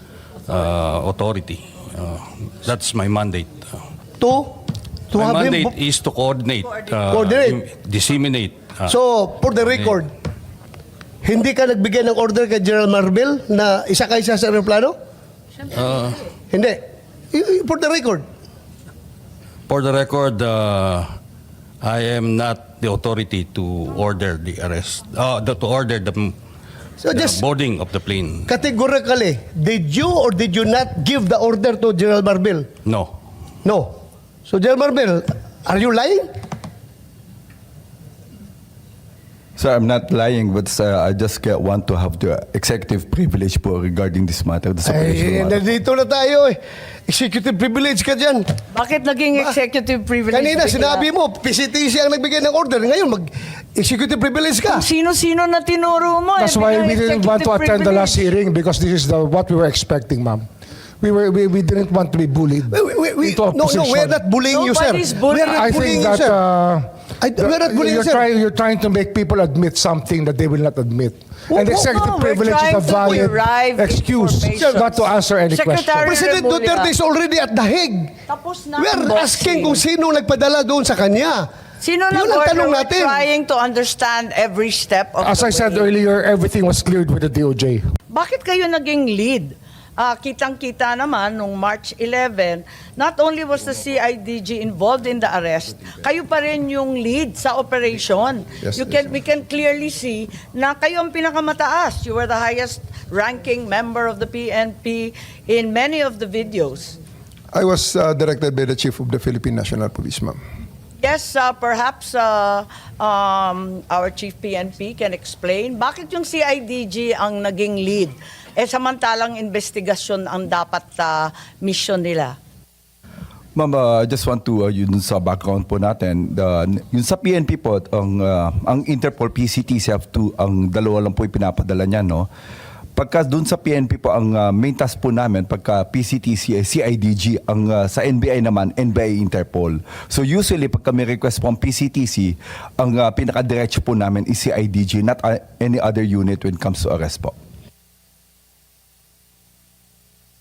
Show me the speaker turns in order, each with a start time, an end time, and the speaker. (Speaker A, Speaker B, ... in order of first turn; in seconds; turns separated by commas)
Speaker A: 0.5-3.8, Speaker B: 4.2-4.6, Speaker B: 5.1-5.8, Speaker A: 5.1-8.9, Speaker B: 7.1-7.6, Speaker B: 8.9-10.1, Speaker A: 9.6-10.0, Speaker B: 11.2-14.9, Speaker A: 15.7-16.2, Speaker B: 16.5-16.8, Speaker B: 17.3-18.2, Speaker A: 19.7-21.1, Speaker A: 21.8-26.4, Speaker B: 27.0-27.4, Speaker A: 27.1-28.5, Speaker B: 28.5-32.7, Speaker A: 32.8-33.2, Speaker B: 33.6-36.3, Speaker C: 39.6-45.7, Speaker B: 44.8-48.5, Speaker D: 48.7-51.0, Speaker B: 50.3-54.9, Speaker D: 54.6-58.3, Speaker E: 56.4-60.5, Speaker E: 61.0-64.2, Speaker B: 62.7-66.4, Speaker D: 64.5-66.2, Speaker E: 65.5-76.1, Speaker B: 67.2-68.3, Speaker B: 71.5-71.8, Speaker D: 71.6-76.9, Speaker B: 73.0-73.3, Speaker B: 76.0-78.1, Speaker D: 78.3-79.8, Speaker B: 78.8-81.5, Speaker D: 81.8-85.9, Speaker B: 82.1-83.2, Speaker E: 85.2-87.8, Speaker D: 88.1-107.0, Speaker F: 98.6-99.0, Speaker F: 107.5-110.4, Speaker D: 111.0-122.3, Speaker C: 123.5-132.3, Speaker C: 133.0-147.3